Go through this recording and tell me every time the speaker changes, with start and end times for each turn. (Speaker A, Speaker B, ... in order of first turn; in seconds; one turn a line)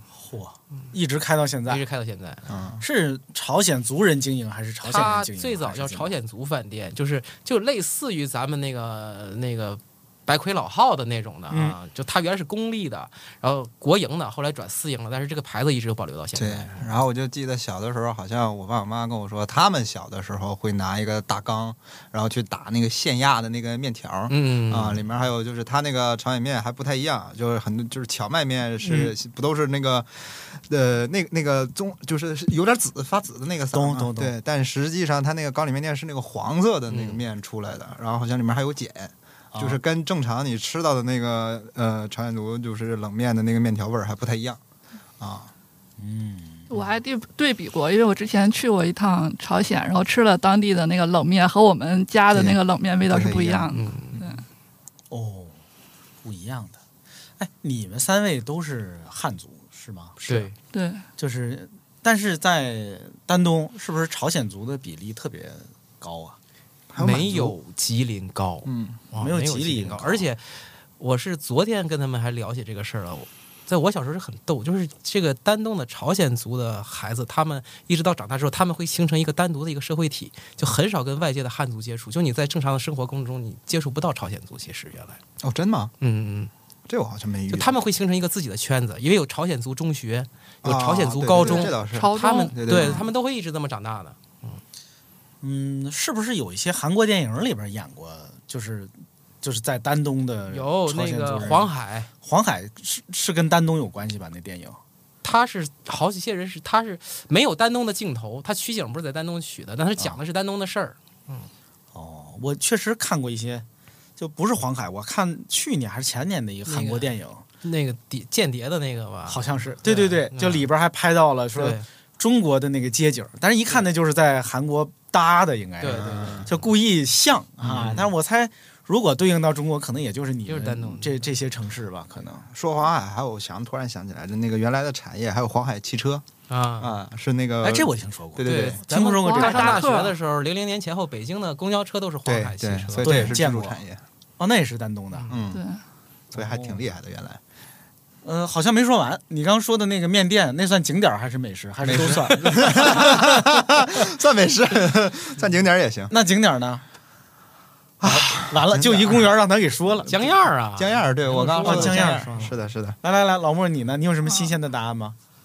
Speaker A: 0.1-1.8
Speaker B: 1.7-2.5
Speaker C: 2.5-2.8
Speaker A: 2.8-6.1
Speaker B: 4.8-16.9
Speaker A: 11.5-11.8
Speaker C: 16.4-44.6
Speaker B: 24.3-25.0
Speaker A: 33.7-34.3
Speaker B: 36.9-37.2
Speaker A: 39.5-39.8
Speaker C: 45.2-45.5
Speaker A: 46.0-46.7
Speaker D: 46.7-54.4
Speaker C: 52.3-53.7
Speaker B: 53.7-54.2
Speaker A: 55.1-55.6
Speaker A: 56.2-56.8
Speaker A: 57.4-60.5
Speaker B: 60.2-60.5
Speaker D: 60.7-61.0
Speaker A: 61.2-66.4
Speaker C: 66.9-67.6
Speaker B: 67.0-85.2
Speaker C: 68.7-69.0
Speaker A: 69.2-70.3
Speaker C: 85.4-85.9
Speaker B: 86.0-86.5
Speaker C: 86.9-87.8
Speaker B: 87.5-94.6
Speaker C: 90.6-93.1
Speaker D: 91.4-92.6
Speaker A: 95.4-98.9
Speaker A: 99.4-104.8
Speaker B: 100.5-102.1
Speaker B: 105.2-111.5
Speaker A: 111.9-113.7
Speaker A: 114.2-117.4
Speaker B: 116.7-117.1
Speaker B: 117.6-120.7
Speaker A: 119.3-132.5
Speaker B: 121.6-121.8
Speaker B: 125.8-126.5
Speaker C: 125.9-126.5
Speaker C: 127.6-128.1
Speaker B: 130.5-131.2
Speaker C: 132.5-136.2
Speaker B: 136.5-136.9
Speaker C: 136.8-138.8
Speaker A: 137.6-139.9
Speaker B: 138.4-143.3
Speaker D: 139.2-140.2
Speaker C: 142.3-144.0
Speaker A: 143.0-143.8
Speaker A: 144.4-145.4
Speaker C: 145.3-145.6
Speaker D: 145.5-145.8
Speaker C: 146.3-147.4
Speaker A: 146.3-146.8
Speaker A: 148.2-153.6
Speaker C: 151.8-156.1
Speaker A: 156.1-156.8
Speaker C: 158.0-159.3
Speaker A: 158.0-160.2
Speaker B: 160.1-162.2
Speaker C: 160.8-163.0
Speaker A: 161.6-165.2
Speaker D: 164.2-164.5